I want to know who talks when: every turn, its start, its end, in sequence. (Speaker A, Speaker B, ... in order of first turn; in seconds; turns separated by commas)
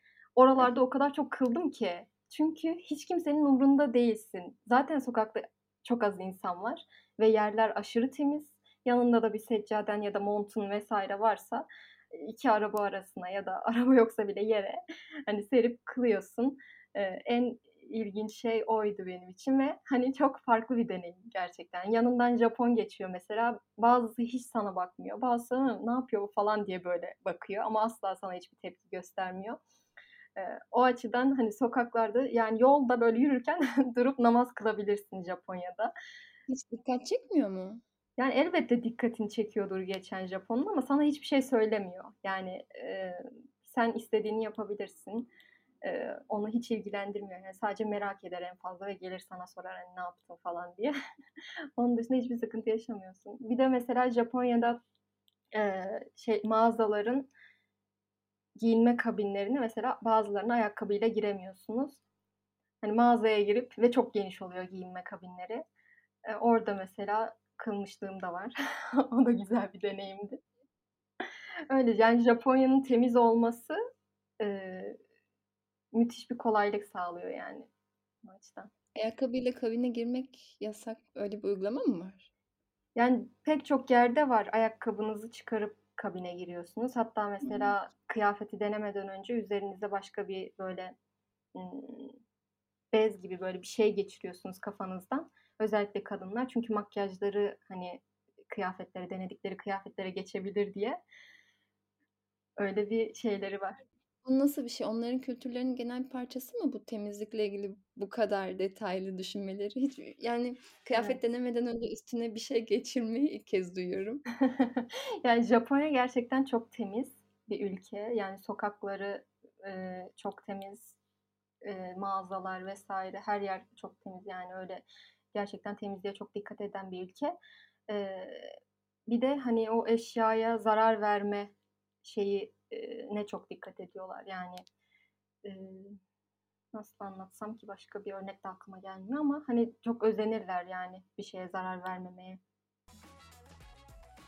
Speaker A: 0.4-29.6, Speaker A: 30.4-35.9, Speaker B: 36.5-37.8, Speaker A: 38.2-45.3, Speaker A: 45.8-50.9, Speaker A: 51.8-54.8, Speaker A: 55.5-57.3, Speaker A: 58.6-62.0, Speaker A: 62.8-65.6, Speaker A: 66.3-70.4, Speaker A: 71.7-73.8, Speaker A: 74.4-75.0, Speaker A: 75.9-77.7, Speaker A: 78.2-78.7, Speaker B: 79.0-82.3, Speaker A: 82.9-90.9, Speaker B: 87.4-87.7, Speaker A: 91.5-92.2, Speaker A: 92.9-101.0, Speaker A: 102.6-103.8, Speaker B: 104.2-114.2, Speaker A: 114.5-121.0, Speaker A: 121.6-127.4, Speaker A: 127.9-128.6, Speaker A: 129.1-131.5, Speaker A: 132.0-134.6, Speaker A: 135.4-136.0, Speaker A: 136.7-142.4